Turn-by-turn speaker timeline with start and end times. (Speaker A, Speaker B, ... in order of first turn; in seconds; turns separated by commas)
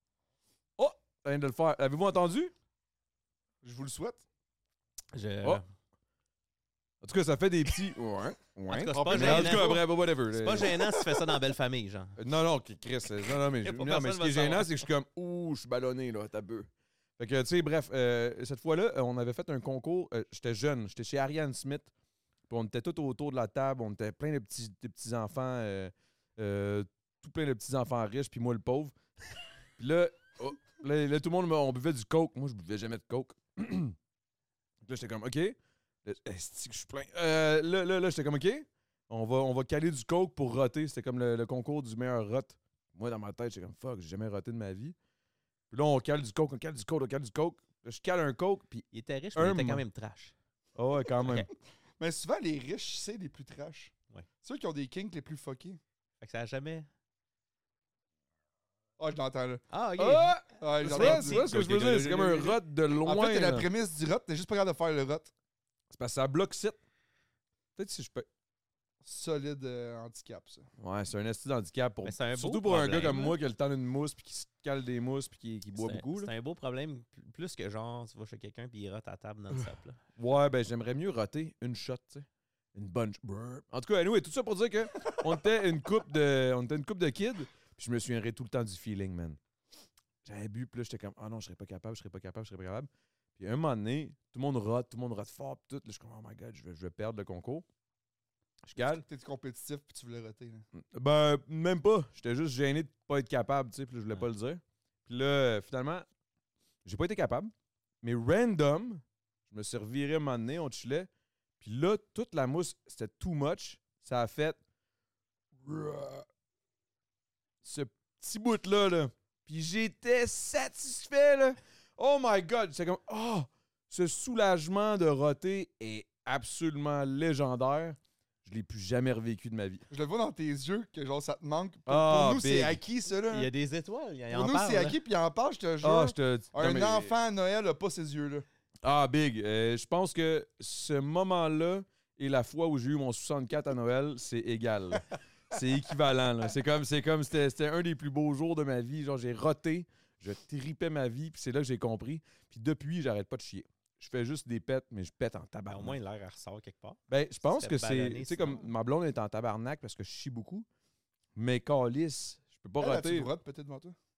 Speaker A: 0.8-2.5, Speaker B: 3.6-4.2, Speaker C: 5.1-5.7, Speaker A: 7.0-11.2, Speaker C: 8.7-12.2, Speaker B: 8.9-9.8, Speaker A: 12.2-21.9, Speaker C: 13.5-14.8, Speaker A: 22.5-29.0, Speaker A: 29.8-34.0, Speaker A: 34.8-45.0, Speaker A: 45.7-49.8, Speaker C: 48.9-50.4, Speaker A: 50.8-51.5, Speaker C: 51.2-51.5, Speaker B: 52.0-55.8, Speaker C: 56.2-56.9, Speaker B: 59.0-59.6, Speaker C: 59.7-61.5, Speaker A: 60.0-63.7, Speaker B: 60.6-65.3, Speaker A: 65.9-66.8, Speaker A: 67.8-68.3, Speaker B: 69.0-70.7, Speaker A: 70.8-76.3, Speaker C: 72.0-73.4, Speaker C: 75.8-80.0, Speaker A: 80.2-89.4, Speaker A: 90.2-97.7, Speaker A: 98.7-99.0, Speaker B: 98.8-100.7, Speaker A: 100.8-106.1, Speaker A: 106.8-111.1, Speaker A: 111.6-114.6, Speaker B: 115.7-116.2, Speaker A: 117.6-129.8, Speaker B: 129.9-133.5, Speaker A: 131.9-132.8, Speaker C: 133.3-135.0, Speaker B: 134.3-138.5, Speaker A: 135.8-137.2, Speaker A: 138.8-156.0, Speaker C: 155.7-158.6, Speaker A: 157.1-160.7, Speaker A: 161.3-163.3, Speaker B: 162.8-164.0